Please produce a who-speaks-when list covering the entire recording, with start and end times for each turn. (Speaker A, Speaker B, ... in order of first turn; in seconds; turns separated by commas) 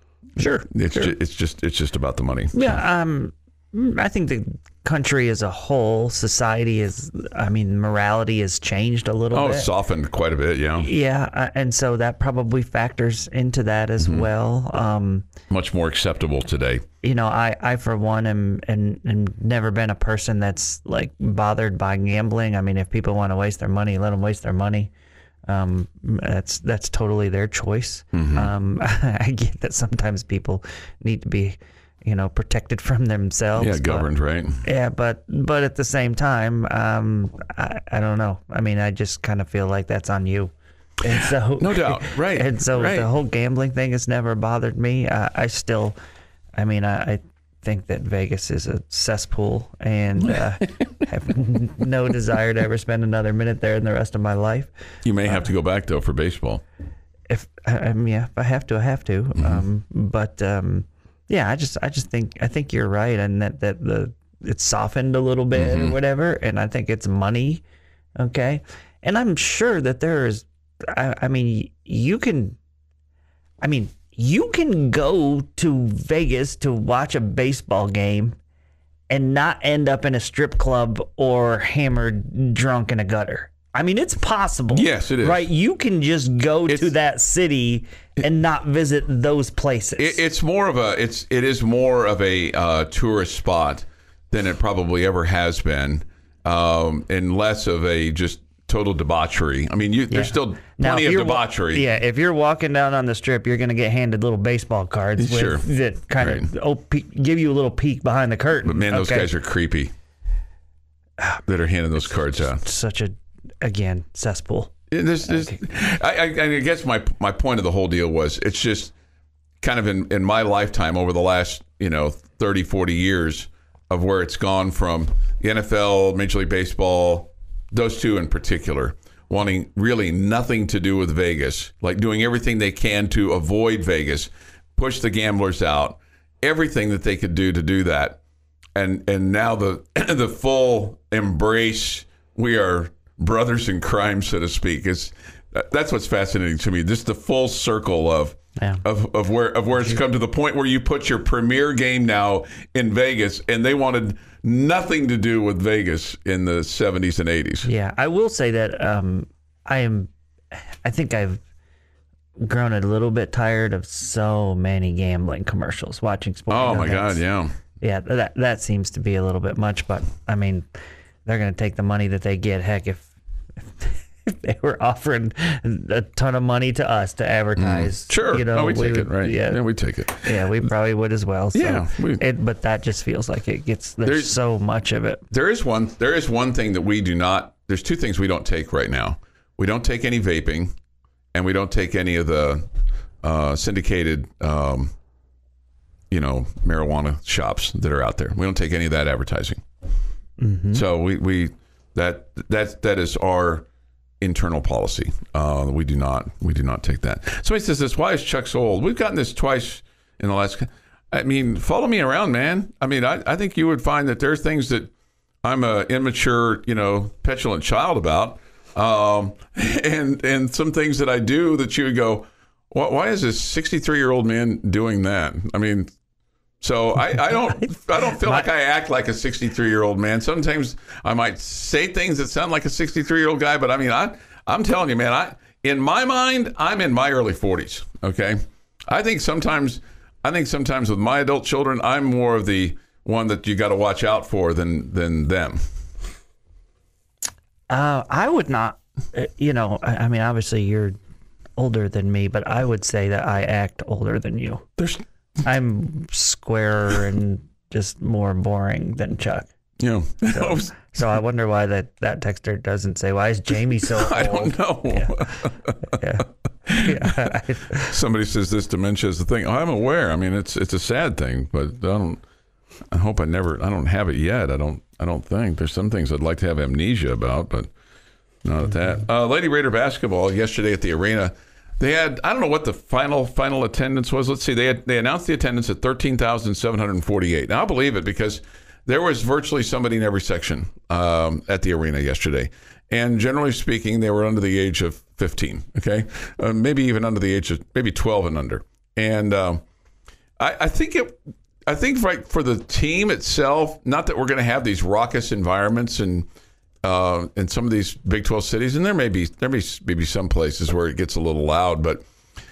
Speaker A: 0.4-1.1, Speaker B: 0.7-2.7, Speaker A: 2.5-9.7, Speaker B: 9.3-10.9, Speaker A: 10.8-15.3, Speaker B: 14.0-14.3, Speaker B: 15.5-16.8, Speaker A: 17.0-24.9, Speaker A: 25.5-34.1, Speaker B: 28.1-28.5, Speaker B: 33.6-34.6, Speaker A: 34.6-46.0, Speaker B: 41.6-43.1, Speaker A: 46.5-54.7, Speaker B: 55.0-56.6, Speaker A: 57.3-67.6, Speaker B: 59.4-59.6, Speaker B: 65.5-65.9, Speaker A: 68.2-72.6, Speaker A: 73.6-78.4, Speaker A: 79.1-90.2, Speaker B: 84.7-85.5, Speaker B: 90.0-101.8, Speaker A: 100.1-109.3, Speaker B: 105.2-105.7, Speaker B: 106.2-106.5, Speaker B: 108.6-109.9, Speaker B: 111.5-112.6, Speaker A: 112.5-114.7, Speaker B: 114.9-118.9, Speaker A: 115.3-115.6, Speaker B: 119.6-138.2, Speaker B: 138.7-157.7, Speaker A: 148.6-148.8, Speaker A: 157.6-160.1, Speaker A: 160.8-161.4, Speaker A: 162.4-167.2, Speaker B: 166.5-167.6, Speaker A: 167.8-170.7, Speaker A: 171.2-173.1, Speaker A: 173.7-179.6, Speaker B: 177.6-180.4, Speaker A: 180.2-185.2, Speaker B: 181.5-182.2, Speaker B: 184.0-184.3, Speaker B: 185.3-190.7, Speaker B: 191.3-192.7, Speaker B: 193.2-194.9, Speaker B: 196.1-199.6, Speaker A: 200.4-200.8, Speaker B: 200.7-203.7, Speaker B: 204.2-214.9, Speaker B: 215.4-225.9, Speaker B: 226.6-245.7, Speaker A: 247.7-250.9, Speaker A: 251.6-254.6, Speaker B: 254.8-255.0, Speaker A: 255.4-259.5, Speaker B: 259.8-260.8, Speaker A: 260.3-265.2, Speaker B: 263.8-266.0, Speaker A: 265.9-266.2, Speaker B: 266.7-272.2, Speaker A: 266.8-267.9, Speaker B: 272.9-277.7, Speaker B: 278.4-299.6, Speaker B: 300.4-306.3, Speaker B: 306.8-312.0